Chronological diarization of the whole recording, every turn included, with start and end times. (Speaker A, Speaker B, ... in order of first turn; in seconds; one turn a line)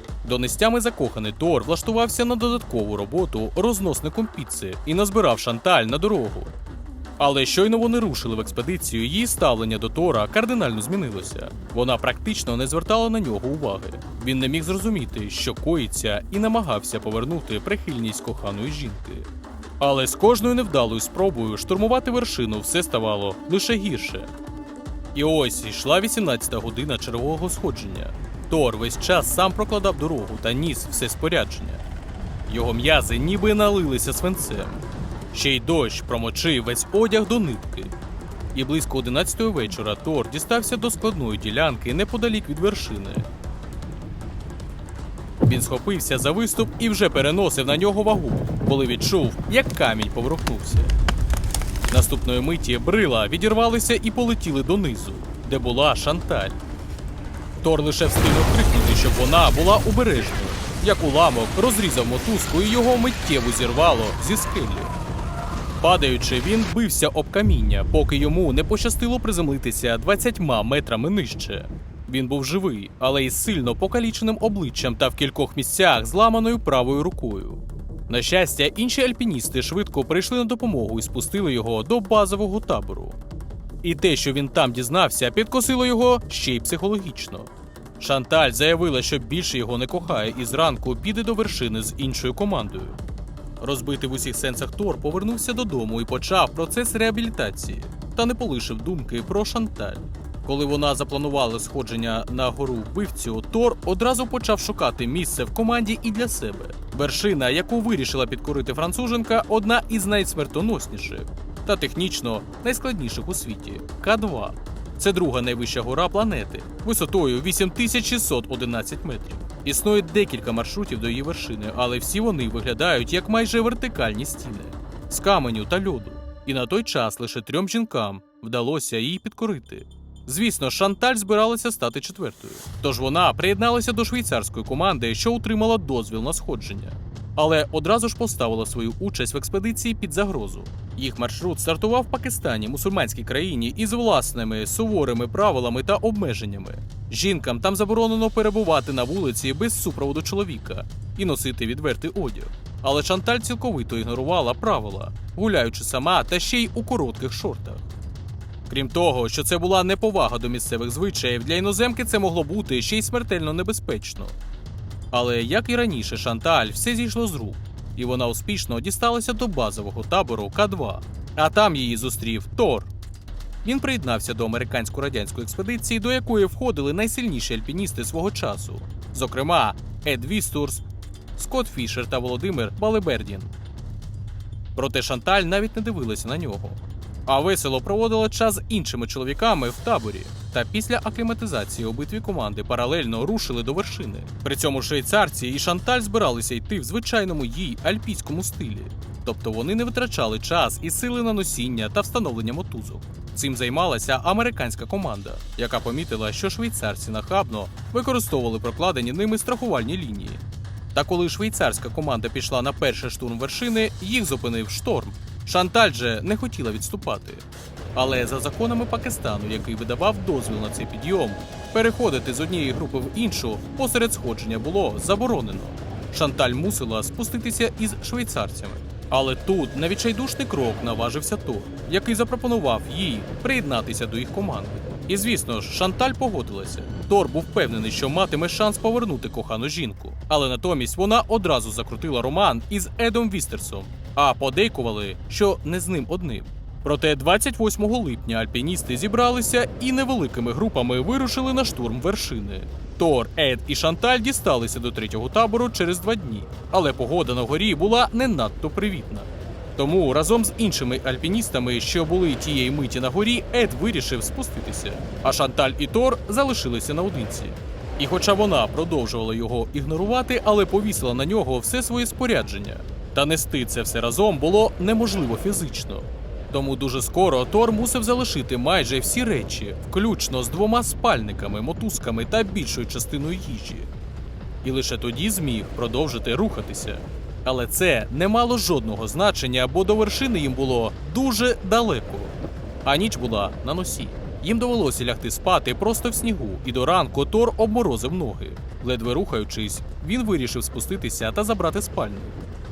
Speaker A: 0.2-6.5
Speaker A: 7.2-19.3
Speaker A: 19.8-24.3
Speaker A: 25.1-31.8
Speaker A: 32.5-37.9
Speaker A: 38.5-43.3
Speaker A: 45.4-50.9
Speaker A: 51.9-56.6
Speaker A: 57.6-64.9
Speaker A: 65.8-83.2
Speaker A: 83.8-93.0
Speaker A: 93.6-157.9
Speaker A: 158.7-164.4
Speaker A: 165.1-172.9
Speaker A: 173.6-183.5
Speaker A: 184.7-210.4
Speaker A: 210.9-283.9
Speaker A: 284.6-302.4